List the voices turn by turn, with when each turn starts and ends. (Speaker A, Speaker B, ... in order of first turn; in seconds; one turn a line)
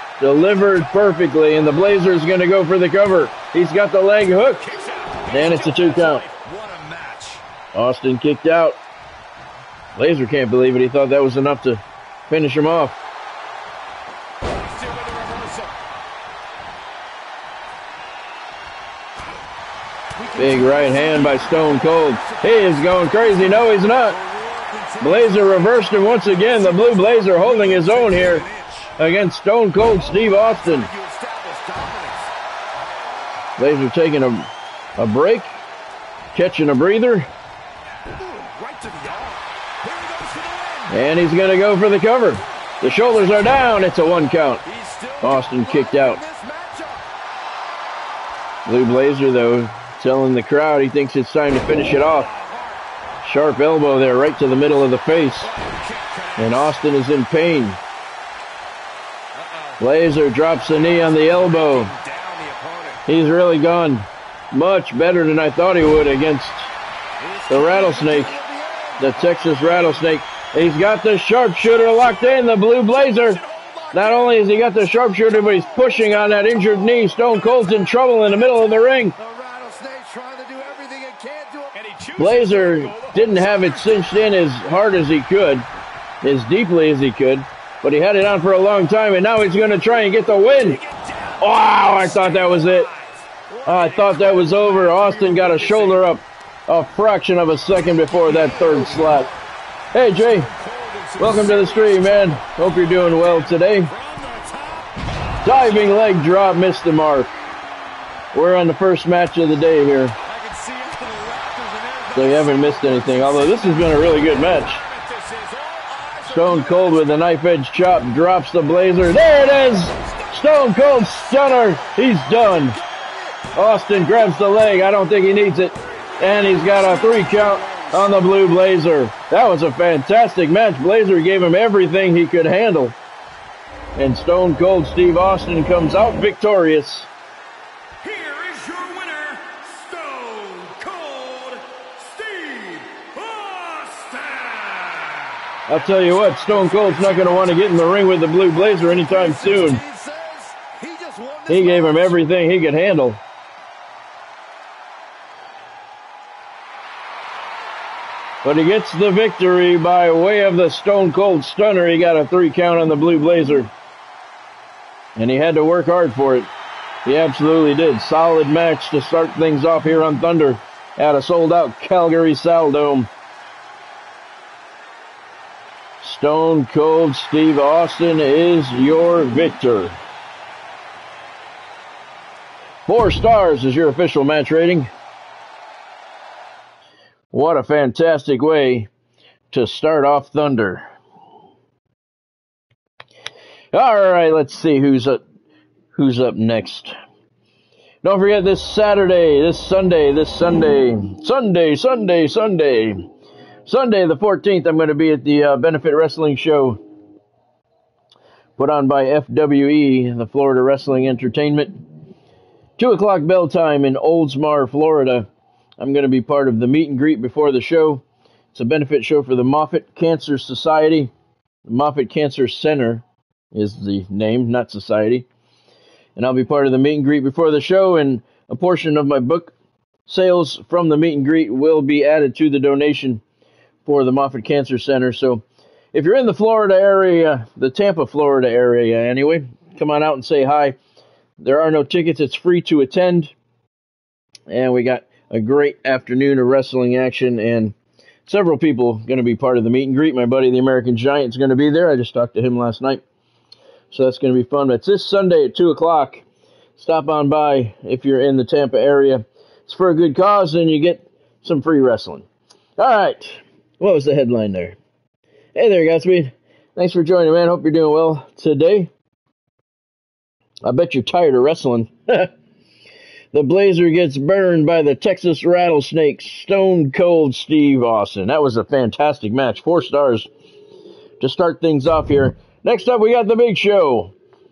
Speaker A: 0.2-4.6
Speaker B: 0.5-1.3
Speaker B: 4.6-7.4
Speaker A: 5.3-6.2
Speaker C: 5.4-6.0
Speaker A: 7.7-8.8
Speaker A: 9.9-13.0
Speaker B: 14.4-15.7
Speaker D: 20.1-25.6
Speaker A: 20.4-24.2
Speaker B: 23.1-28.9
Speaker A: 25.0-28.4
Speaker A: 29.0-30.9
Speaker D: 29.8-32.3
Speaker A: 33.6-35.6
Speaker A: 36.3-37.3
Speaker D: 38.1-40.9
Speaker A: 40.9-44.6
Speaker D: 44.6-47.0
Speaker A: 45.2-46.2
Speaker A: 48.6-52.3
Speaker B: 51.8-52.8
Speaker A: 53.2-55.5
Speaker B: 55.4-56.7
Speaker A: 56.4-57.8
Speaker B: 59.3-59.8
Speaker A: 59.8-61.9
Speaker B: 60.7-63.0
Speaker A: 63.0-66.7
Speaker D: 67.3-69.3
Speaker A: 67.5-68.4
Speaker A: 69.0-73.4
Speaker B: 73.3-74.4
Speaker A: 73.9-79.1
Speaker B: 75.3-76.5
Speaker D: 75.3-76.1
Speaker D: 79.2-81.8
Speaker C: 81.8-83.1
Speaker B: 82.2-84.2
Speaker A: 82.2-85.7
Speaker A: 86.2-90.8
Speaker B: 90.6-96.1
Speaker A: 91.4-92.9
Speaker A: 93.7-99.3
Speaker D: 97.9-99.5
Speaker B: 98.3-99.0
Speaker A: 99.9-100.5
Speaker B: 100.1-106.0
Speaker A: 101.2-103.9
Speaker A: 105.4-107.3
Speaker A: 108.3-110.2
Speaker B: 110.2-117.0
Speaker A: 112.1-114.8
Speaker C: 115.4-115.8
Speaker A: 116.2-122.8
Speaker B: 119.2-121.9
Speaker D: 122.2-123.5
Speaker A: 123.5-133.0
Speaker D: 126.5-128.1
Speaker B: 126.7-127.9
Speaker A: 133.9-137.1
Speaker C: 138.0-145.4
Speaker A: 145.7-149.8
Speaker B: 145.7-148.2
Speaker D: 148.7-152.2
Speaker A: 151.5-153.2
Speaker A: 158.4-163.7
Speaker A: 165.2-166.5
Speaker A: 167.0-173.1
Speaker A: 176.0-180.0
Speaker A: 182.9-184.9
Speaker A: 187.3-188.9
Speaker A: 189.5-190.9
Speaker A: 193.7-195.2
Speaker A: 195.9-196.9
Speaker A: 198.0-203.1
Speaker A: 203.7-206.8
Speaker A: 208.6-211.8
Speaker A: 212.8-215.3
Speaker A: 215.8-218.0
Speaker A: 218.5-221.1
Speaker A: 221.7-225.3
Speaker A: 226.2-229.5
Speaker A: 230.1-233.2
Speaker A: 233.8-240.8
Speaker A: 241.4-243.3
Speaker A: 244.5-247.7
Speaker A: 248.3-253.0
Speaker A: 253.9-256.2
Speaker A: 256.8-262.2
Speaker A: 262.8-264.8
Speaker A: 265.5-268.9
Speaker A: 270.6-272.3
Speaker A: 273.3-280.3
Speaker A: 281.2-284.1